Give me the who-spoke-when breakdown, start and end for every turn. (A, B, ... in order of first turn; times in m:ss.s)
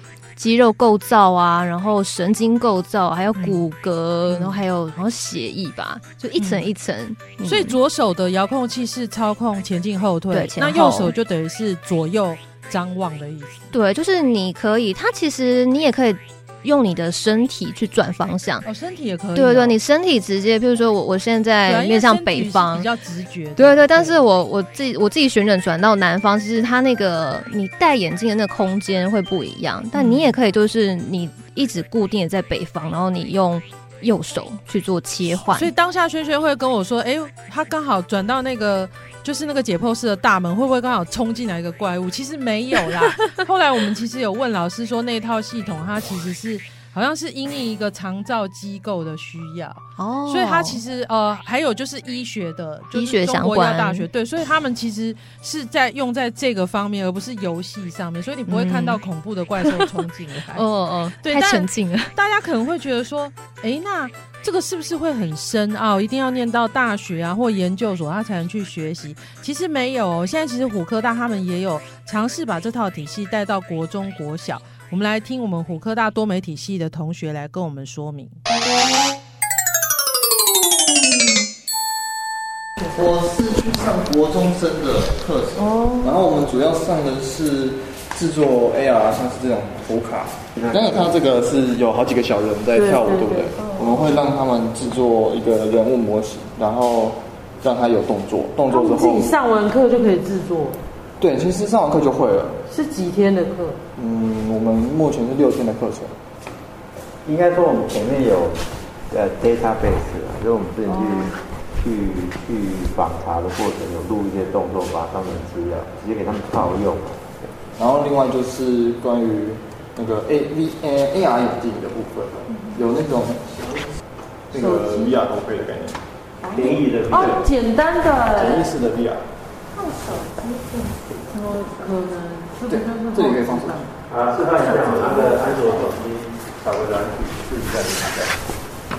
0:00.4-0:07.8 A
0:03.4-0:03.6 B
0:04.3-0:04.6 B
0:06.4-0:06.7 B
0:07.4-0:13.6 B
0:10.3-0:11.1 A
0:13.7-0:18.6 A
0:18.6-0:19.8 B
0:19.3-0:22.9 A
0:21.6-0:24.2 B
0:23.6-0:35.7 A
0:29.9-0:30.3 B
0:35.5-1:00.7 B
0:50.0-0:50.8 A
0:52.9-0:54.1 A
0:58.5-0:59.0 A
0:59.6-1:00.0 A
1:00.5-1:02.1 A
1:01.2-1:18.3 B
1:23.0-1:25.4 C
1:25.6-1:26.2 D
1:26.0-1:39.4 C
1:30.5-1:31.2 E
1:32.7-1:33.9 D
1:38.7-1:40.8 D
1:41.2-1:42.6 C
1:42.7-1:43.8 D
1:44.0-1:46.2 C
1:47.2-1:57.2 E
1:50.9-1:51.3 D
1:57.8-2:03.8 C
2:04.5-2:06.0 C
2:04.5-2:05.2 D
2:06.4-2:06.9 A
2:06.5-2:07.4 E
2:07.1-2:08.7 D
2:08.3-2:09.2 C
2:09.7-2:12.0 A
2:11.4-2:13.9 D
2:12.7-2:13.9 C
2:14.1-2:18.4 E
2:14.6-2:16.1 A